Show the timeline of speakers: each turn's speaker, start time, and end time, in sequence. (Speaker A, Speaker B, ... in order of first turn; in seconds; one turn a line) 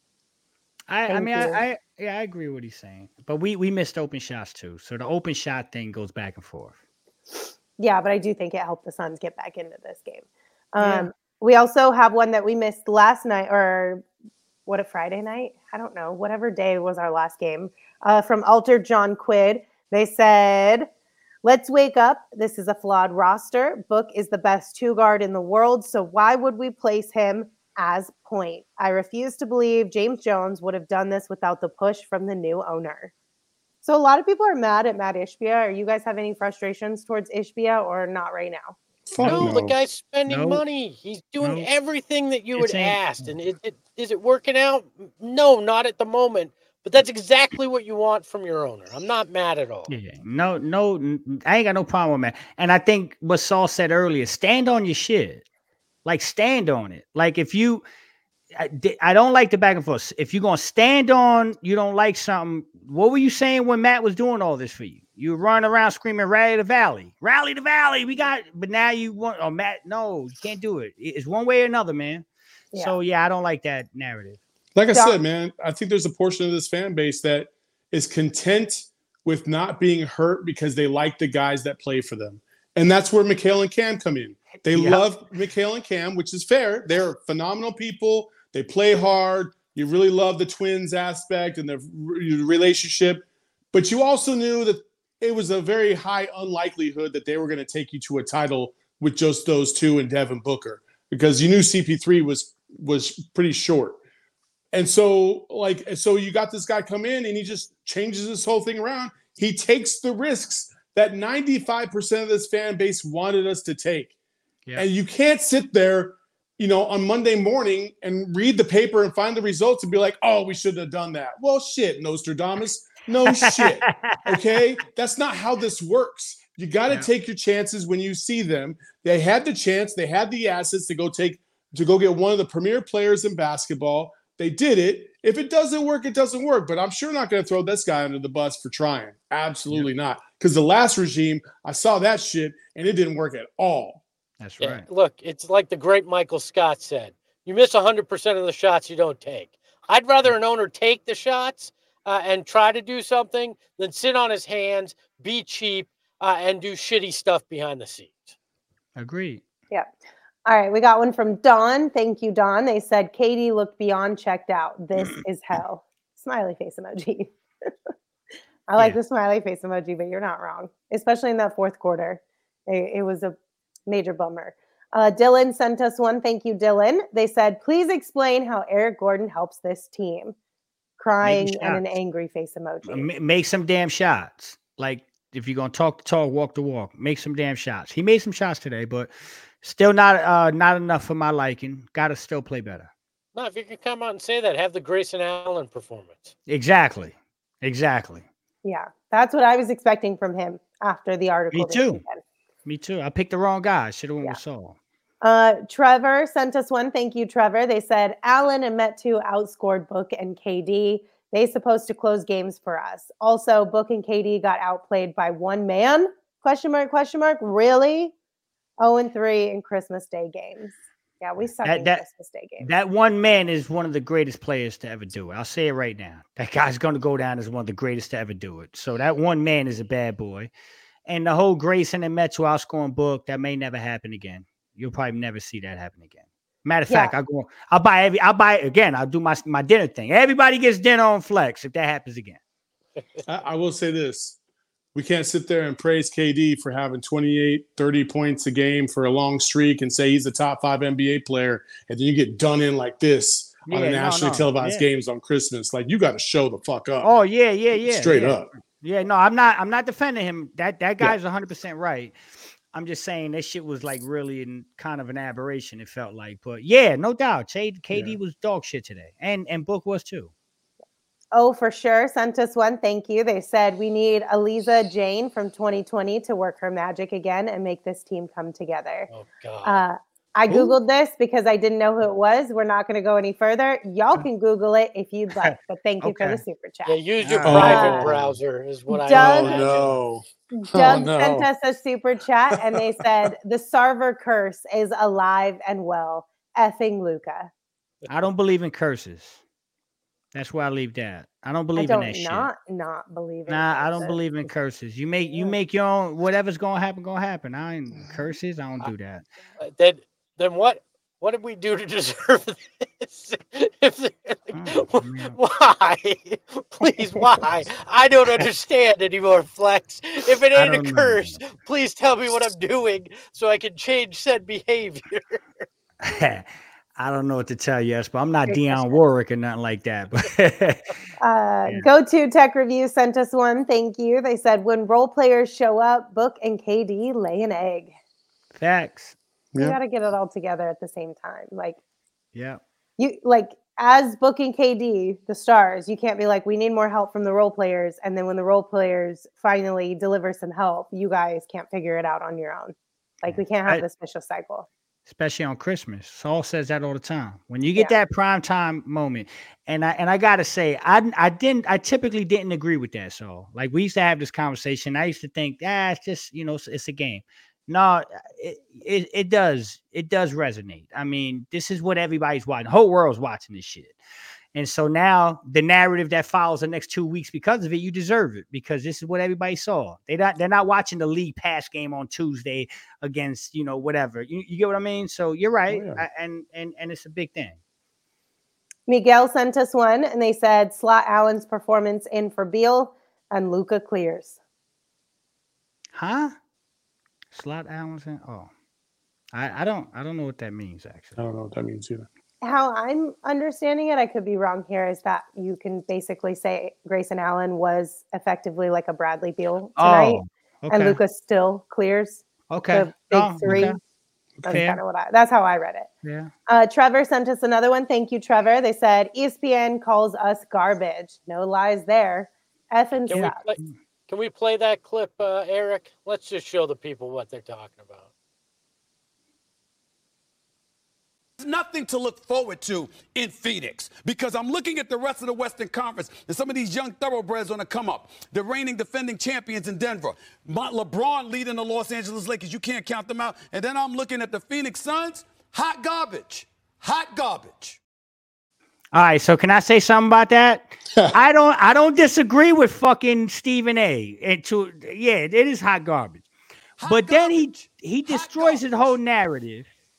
Speaker A: 0.9-6.8
Speaker B: 1.1-1.6
Speaker B: 7.8-14.0
Speaker A: 10.8-11.1
Speaker B: 14.7-20.9
Speaker B: 21.4-33.1
Speaker B: 33.8-38.8
Speaker C: 39.1-39.7
Speaker A: 39.2-39.7
Speaker D: 39.2-49.9
Speaker A: 40.3-40.6
Speaker A: 41.4-41.7
Speaker A: 42.6-43.3
Speaker A: 49.9-55.4
Speaker A: 56.0-57.8
Speaker A: 58.5-72.2
Speaker A: 72.8-74.4
Speaker C: 74.8-104.0
Speaker B: 74.9-75.2
Speaker A: 84.7-85.0
Speaker C: 104.7-114.1
Speaker C: 114.8-144.0
Speaker A: 123.3-124.3
Speaker A: 144.4-144.9
Speaker D: 144.6-158.3
Speaker A: 159.0-159.4
Speaker B: 160.5-167.9
Speaker B: 168.7-173.3
Speaker B: 173.9-180.4
Speaker B: 181.0-183.1
Speaker A: 181.2-181.9
Speaker A: 182.9-192.9
Speaker D: 193.3-196.3
Speaker A: 196.5-198.3
Speaker B: 198.6-202.2
Speaker A: 201.5-202.0
Speaker A: 202.7-204.8
Speaker B: 205.2-218.1
Speaker B: 218.8-222.7
Speaker A: 221.6-222.0
Speaker A: 222.6-230.5
Speaker A: 231.1-242.4
Speaker C: 243.3-244.4
Speaker C: 244.9-257.1
Speaker A: 253.7-254.9
Speaker A: 257.0-262.2
Speaker C: 257.8-258.5
Speaker A: 262.7-270.3
Speaker C: 267.9-268.2
Speaker B: 271.3-279.1
Speaker D: 279.1-279.8
Speaker B: 279.6-287.0
Speaker A: 280.5-280.8
Speaker A: 285.4-286.4
Speaker D: 286.9-290.0
Speaker A: 287.2-287.9
Speaker C: 287.4-288.4
Speaker B: 287.5-288.1
Speaker B: 289.1-289.6
Speaker C: 289.1-291.5
Speaker B: 290.6-297.5
Speaker A: 298.1-299.4
Speaker A: 300.3-302.5
Speaker B: 301.8-304.2
Speaker A: 303.5-309.3
Speaker D: 309.6-325.6
Speaker A: 314.5-315.4
Speaker A: 320.6-321.4
Speaker A: 326.0-330.9
Speaker B: 328.5-329.0
Speaker B: 331.2-337.9
Speaker A: 338.5-339.1
Speaker B: 339.6-341.8
Speaker A: 342.4-342.6
Speaker B: 343.0-354.7
Speaker A: 353.3-353.8
Speaker A: 355.1-374.0
Speaker A: 374.5-387.6
Speaker C: 385.7-386.0
Speaker B: 388.9-394.4
Speaker A: 395.9-396.4
Speaker A: 397.3-398.5
Speaker A: 399.3-401.2
Speaker C: 401.2-402.1
Speaker B: 402.4-413.8
Speaker A: 409.8-411.0
Speaker A: 412.5-413.8
Speaker B: 414.4-415.9
Speaker A: 414.5-414.8
Speaker A: 416.0-416.3
Speaker B: 416.5-423.4
Speaker D: 423.0-428.1
Speaker A: 423.1-423.8
Speaker E: 431.4-447.8
Speaker A: 448.9-456.3
Speaker E: 456.8-459.0
Speaker A: 456.9-459.7